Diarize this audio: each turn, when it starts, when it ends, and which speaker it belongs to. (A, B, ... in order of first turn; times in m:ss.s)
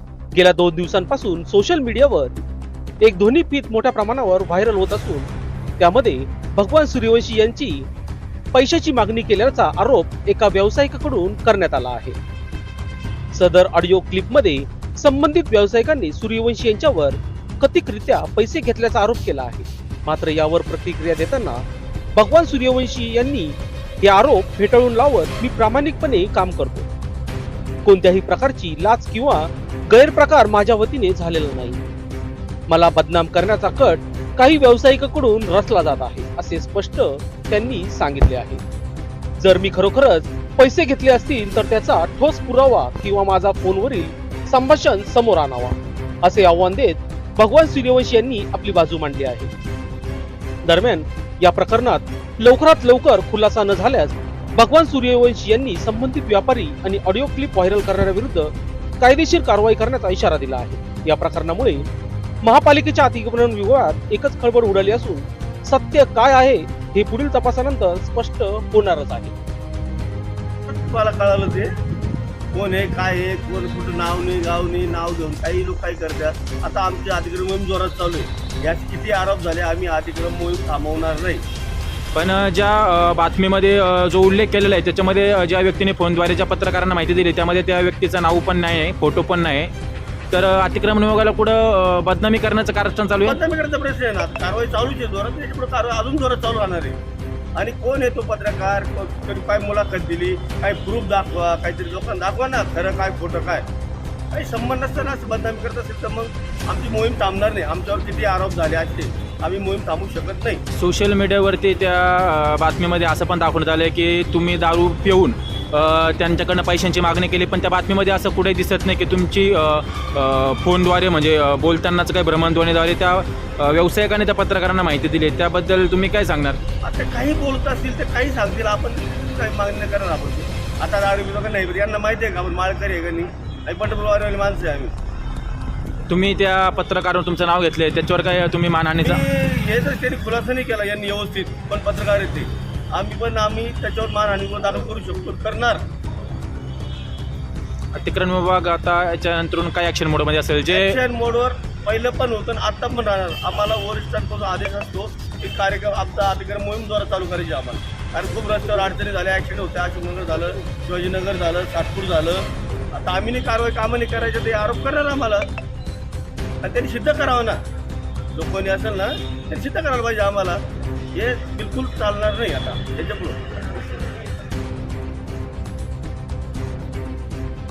0:00.4-0:02.4 A
0:03.0-0:05.3 A
0:05.8-0:07.9 A
0:08.5-0:12.2 A
0:13.3-0:21.6 A
0:22.2-0:26.9 A
0:27.8-0:31.8 A
0:32.7-0:38.6 A
0:39.4-0:49.5 A
0:50.6-1:01.8 A
1:02.4-1:09.4 A
1:10.7-1:11.7 B
1:12.5-1:21.4 B
1:22.1-1:29.7 C
1:30.3-1:33.4 C
1:33.2-1:37.0 B
1:37.6-1:43.6 B
1:44.3-1:50.6 B
1:50.7-2:06.6 C
2:06.8-2:14.9 B
2:16.1-2:19.2 C
2:19.0-2:25.8 B
2:28.0-2:31.0 C
2:30.7-2:45.5 B
2:46.6-2:47.6 B
2:48.3-2:54.0 B